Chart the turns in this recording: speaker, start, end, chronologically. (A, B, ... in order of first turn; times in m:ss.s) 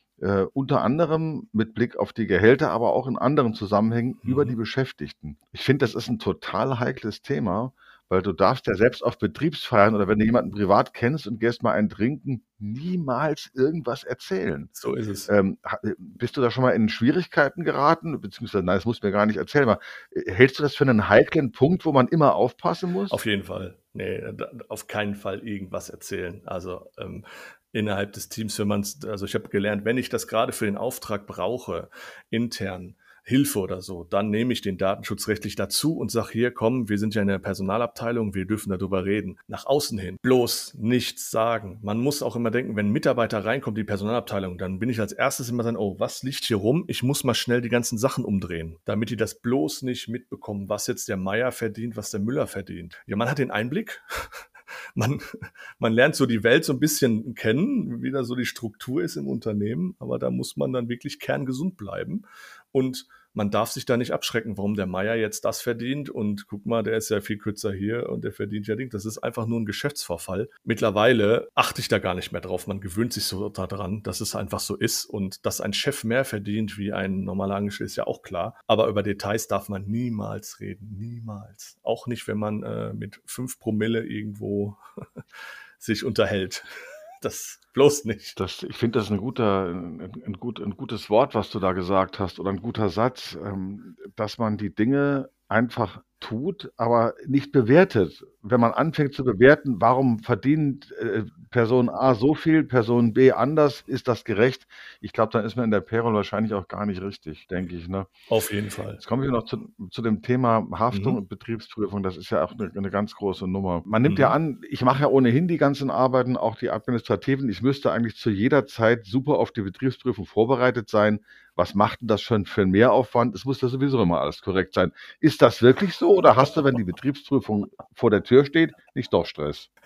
0:00.2-0:14.7 A
0:04.2-0:04.5 B
0:14.8-0:15.3 B
0:15.3-0:23.2 A
0:23.1-1:24.8 B
1:25.8-1:26.7 B
1:27.2-1:28.4 B
1:28.4-1:48.1 A
1:48.3-1:49.0 B
1:49.0-2:09.7 A
1:50.9-1:51.2 B
1:54.0-1:54.4 B